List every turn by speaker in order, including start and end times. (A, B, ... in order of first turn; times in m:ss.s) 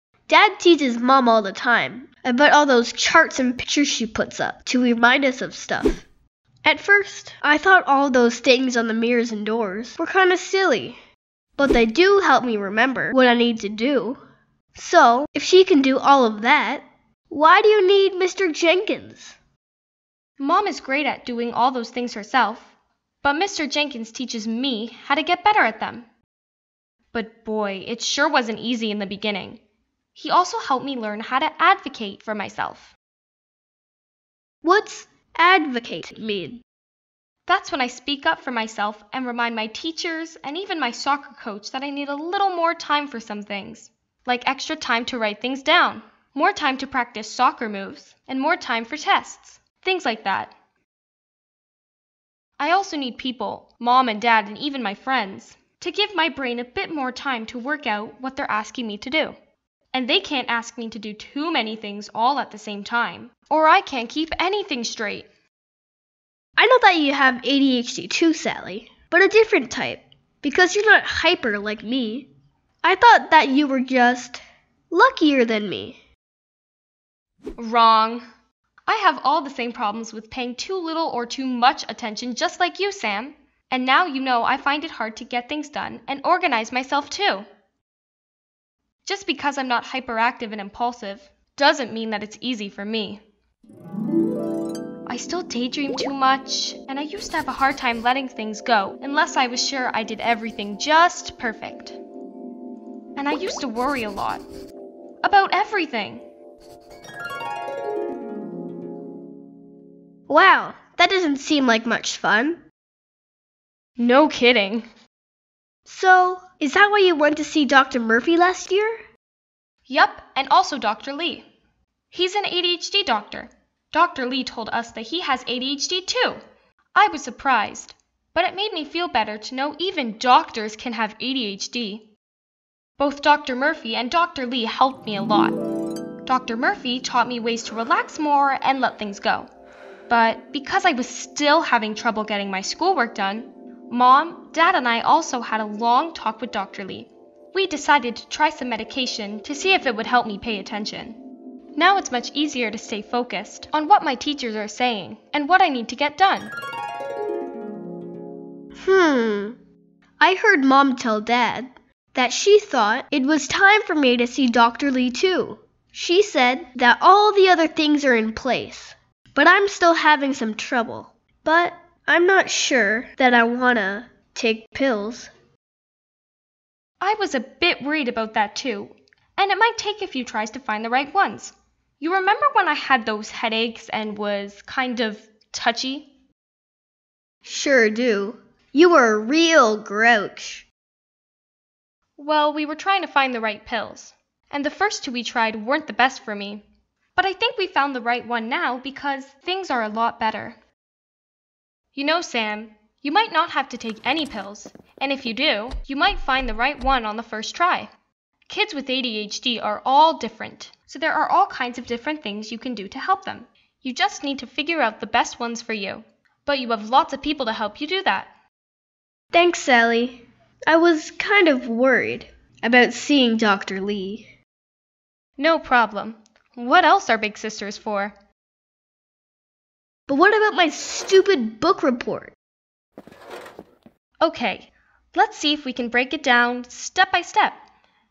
0:00.3-0:06.1 A
0:06.6-0:11.0 A
0:11.6-0:14.2 A
0:14.8-0:19.4 A
0:20.4-0:22.7 B
0:23.2-0:26.1 B
0:27.1-0:29.6 B
0:30.1-0:33.0 B
0:34.6-0:36.6 A
0:37.5-0:50.5 B
0:52.6-0:59.4 B
0:59.9-1:05.3 B
1:06.6-1:12.3 A
1:12.8-1:16.0 A
1:17.6-1:18.2 B
1:18.9-1:27.5 B
1:29.0-1:33.2 B
1:35.1-1:42.0 B
1:43.2-1:44.4 B
1:45.2-1:46.2 B
1:50.3-1:52.6 A
1:54.0-1:54.9 B
1:55.9-1:59.0 A
1:59.9-2:01.5 B
2:02.1-2:06.4 B
2:07.0-2:12.1 B
2:13.0-2:15.6 B
2:16.2-2:19.5 B
2:20.1-2:31.2 B
2:31.8-2:36.5 B
2:38.8-2:39.6 A
2:40.2-2:55.3 A
2:57.0-3:06.1 B
3:07.4-3:10.7 A
3:12.2-3:16.6 B
3:17.2-3:20.6 B
3:21.9-3:27.9 B
3:28.5-3:38.3 B
3:39.3-3:44.3 A
3:45.4-3:48.1 B
3:50.1-3:52.4 A
3:54.2-3:57.6 B